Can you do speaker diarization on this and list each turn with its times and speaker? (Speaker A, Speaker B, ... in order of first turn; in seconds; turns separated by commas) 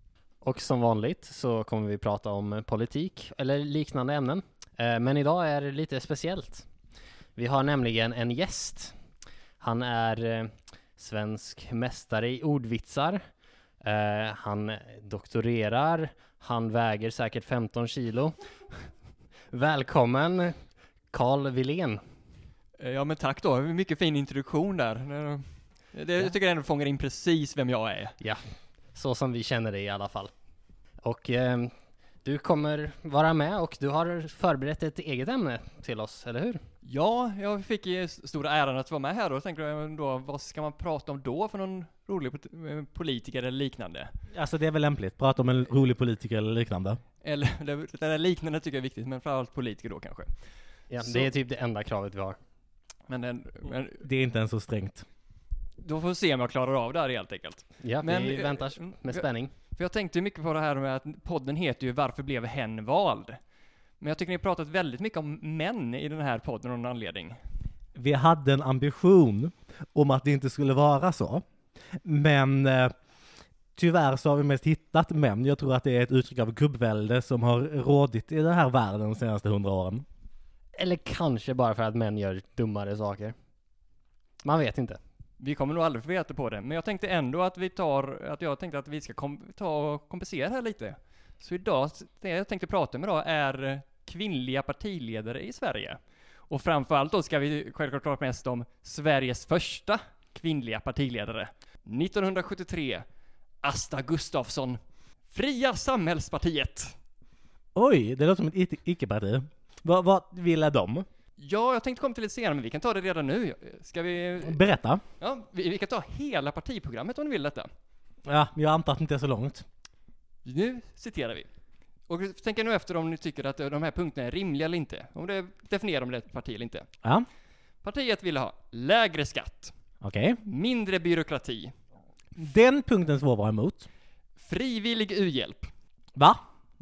Speaker A: 0.5-6.6, Speaker A: 7.4-8.9, Speaker A: 9.6-13.2, Speaker A: 13.8-18.3, Speaker A: 19.5-20.5, Speaker A: 21.1-22.0, Speaker B: 22.8-28.1, Speaker A: 28.9-30.3, Speaker A: 31.0-31.7, Speaker A: 32.2-36.6, Speaker B: 36.8-44.1, Speaker C: 44.3-47.0, Speaker B: 47.2-50.3, Speaker A: 50.9-52.4, Speaker B: 51.0-51.3, Speaker B: 53.1-54.0, Speaker C: 54.0-55.0, Speaker B: 55.8-59.2, Speaker A: 57.8-59.5, Speaker B: 59.7-63.4, Speaker B: 64.0-67.4, Speaker C: 68.0-71.4, Speaker C: 72.0-72.9, Speaker C: 73.8-80.0, Speaker A: 80.8-83.3, Speaker A: 84.4-85.0, Speaker B: 85.4-103.0, Speaker B: 103.6-104.8, Speaker B: 105.3-107.0, Speaker C: 107.7-111.0, Speaker B: 111.4-114.7, Speaker C: 114.4-115.0, Speaker B: 115.2-117.7, Speaker C: 118.2-119.6, Speaker B: 120.4-121.5, Speaker B: 122.1-126.8, Speaker B: 127.8-129.7, Speaker C: 130.0-130.4, Speaker B: 130.4-131.7, Speaker C: 132.4-133.9, Speaker B: 134.4-135.7